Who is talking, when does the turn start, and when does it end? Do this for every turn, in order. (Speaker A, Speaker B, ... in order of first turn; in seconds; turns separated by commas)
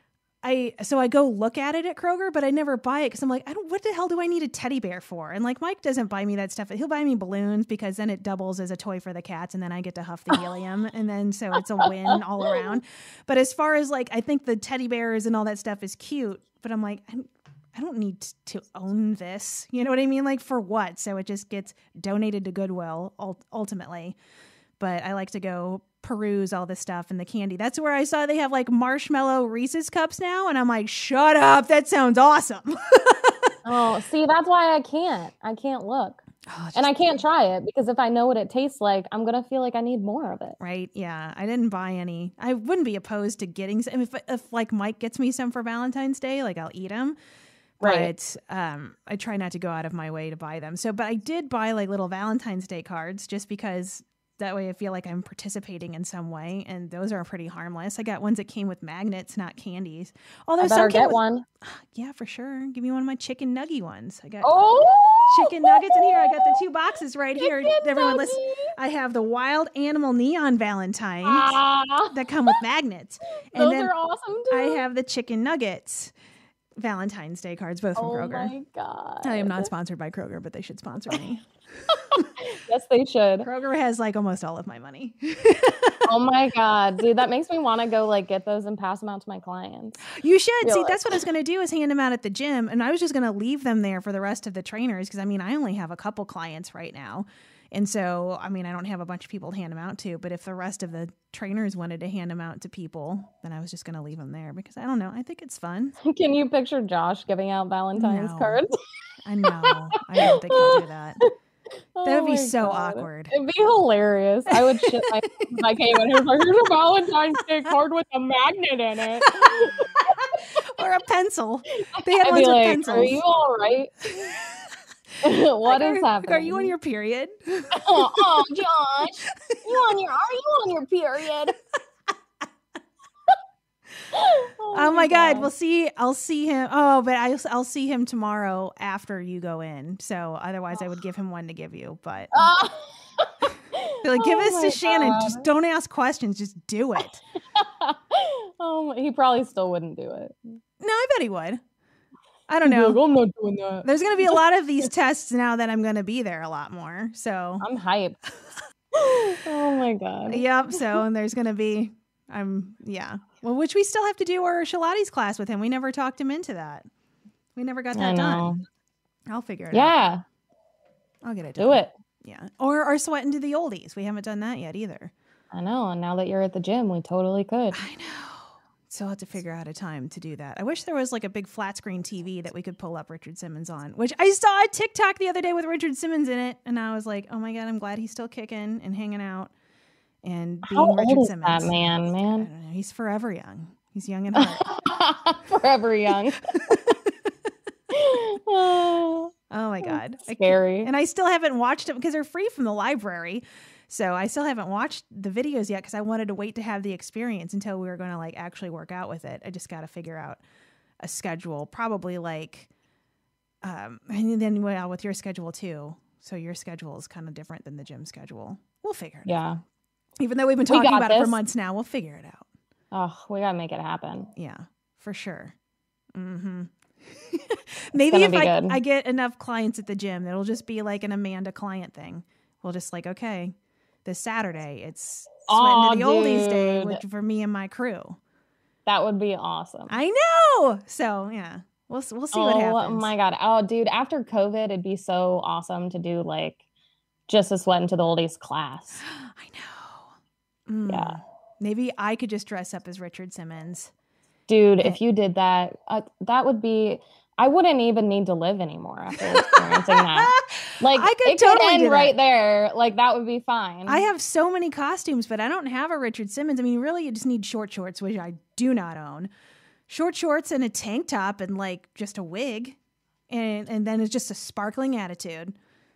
Speaker A: 0.4-24.2, Speaker A: 24.8-33.5, Speaker B: 33.6-36.2, Speaker A: 36.5-37.2, Speaker B: 36.8-40.6, Speaker A: 40.6-47.2, Speaker A: 47.8-64.6, Speaker B: 47.8-48.1, Speaker B: 60.6-61.4, Speaker B: 64.4-66.6, Speaker A: 65.3-73.9, Speaker B: 67.4-68.7, Speaker B: 71.2-72.6, Speaker B: 73.5-74.8, Speaker A: 74.5-76.1, Speaker A: 76.8-78.5, Speaker B: 78.0-79.7, Speaker A: 79.2-81.5, Speaker B: 81.9-83.5, Speaker A: 83.4-86.1, Speaker B: 86.0-90.1, Speaker A: 90.1-106.0, Speaker B: 90.6-91.1, Speaker B: 106.0-108.8, Speaker A: 108.0-108.6, Speaker A: 109.2-111.2, Speaker B: 109.5-111.3, Speaker B: 111.9-120.2, Speaker A: 112.0-113.3, Speaker A: 114.5-116.2, Speaker A: 119.3-123.2, Speaker B: 121.9-124.3, Speaker A: 124.3-124.6, Speaker B: 125.2-126.7, Speaker A: 125.7-128.5, Speaker B: 127.7-131.6, Speaker B: 134.1-135.5, Speaker A: 134.7-142.4, Speaker B: 142.3-145.4, Speaker A: 144.0-147.2, Speaker B: 147.5-150.6, Speaker A: 150.8-151.6, Speaker A: 152.5-153.0, Speaker B: 152.6-154.4, Speaker A: 153.8-157.7, Speaker B: 157.6-158.2, Speaker B: 158.9-160.9, Speaker A: 160.3-166.8, Speaker A: 167.5-168.6, Speaker B: 167.9-168.6, Speaker A: 169.3-169.9, Speaker B: 169.7-170.2, Speaker A: 171.2-175.1, Speaker B: 171.6-171.9, Speaker B: 175.5-177.8, Speaker A: 177.7-189.5, Speaker A: 190.2-191.7, Speaker B: 190.7-192.5, Speaker A: 192.3-194.6, Speaker B: 194.3-196.4, Speaker A: 196.5-197.1, Speaker B: 197.9-199.3, Speaker A: 199.5-210.4, Speaker B: 199.8-200.9, Speaker A: 211.0-212.7, Speaker A: 213.6-219.4, Speaker B: 219.2-219.6, Speaker A: 220.2-222.5, Speaker B: 220.7-221.4, Speaker B: 222.9-224.3, Speaker A: 224.3-225.5, Speaker A: 226.1-238.2, Speaker B: 228.1-228.8, Speaker B: 235.5-237.0, Speaker B: 238.8-239.9, Speaker A: 239.9-243.1, Speaker B: 242.3-246.6, Speaker B: 247.3-249.0, Speaker A: 249.1-250.1, Speaker A: 250.7-253.9, Speaker B: 250.9-251.2, Speaker B: 254.5-264.0, Speaker A: 259.2-262.1, Speaker A: 263.9-269.3, Speaker A: 269.9-272.8, Speaker A: 273.3-275.6